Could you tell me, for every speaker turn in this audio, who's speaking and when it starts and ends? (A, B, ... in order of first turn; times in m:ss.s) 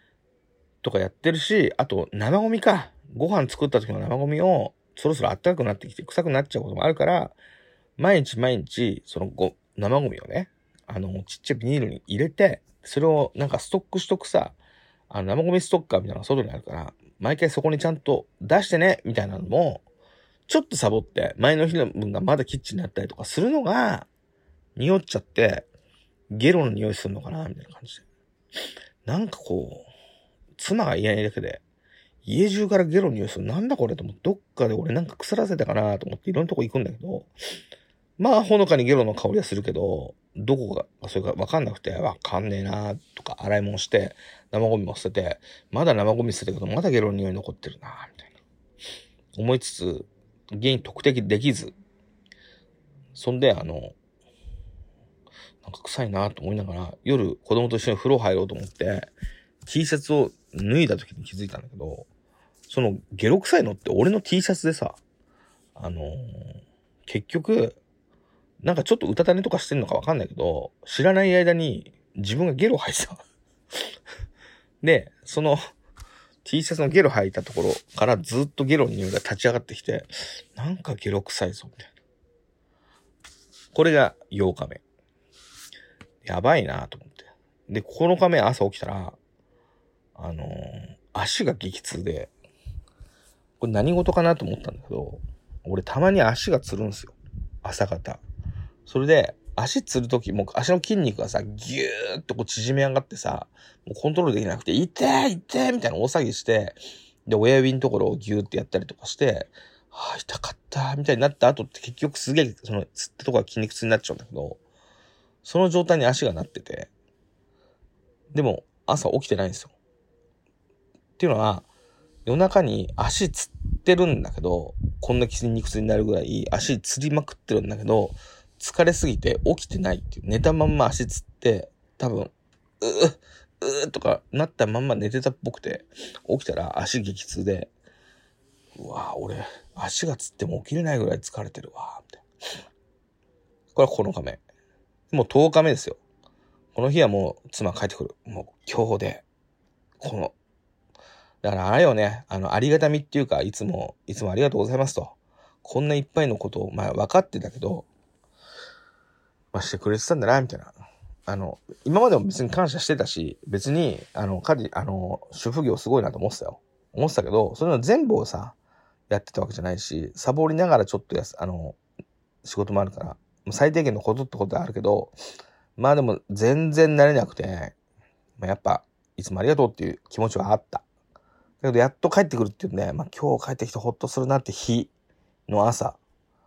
0:00.8-0:07.4 A
0:08.0-0:14.6 A
0:15.1-0:19.8 A
0:20.5-0:24.1 A
0:24.8-0:25.7 A
0:26.3-0:28.0 A
0:29.0-0:29.8 A
0:30.6-0:31.6 A
0:32.2-0:37.3 A
0:38.2-0:48.3 A
0:49.3-0:51.7 A
0:53.1-0:53.9 A
0:55.6-0:59.1 A
0:59.6-1:02.1 A
1:02.7-1:05.0 A
1:05.8-1:07.8 A
1:08.6-1:13.2 A
1:14.8-1:15.6 A
1:16.4-1:21.9 A
1:23.7-1:24.8 A
1:26.2-1:29.2 A
1:30.2-1:32.3 A
1:33.6-1:38.2 A
1:38.8-1:54.6 A
1:55.4-1:56.9 A
1:58.3-1:59.7 A
2:01.2-2:01.7 A
2:02.2-2:17.7 A
2:18.7-2:22.2 A
2:23.7-2:24.4 A
2:25.1-2:26.0 A
2:26.7-2:29.2 A
2:30.0-2:30.3 A
2:31.4-2:37.9 A
2:39.5-2:40.7 A
2:41.3-2:48.6 A
2:49.1-2:51.8 A
2:52.4-2:55.1 A
2:55.8-2:57.7 A
2:58.4-3:00.8 A
3:01.6-3:04.9 A
3:05.5-3:06.0 A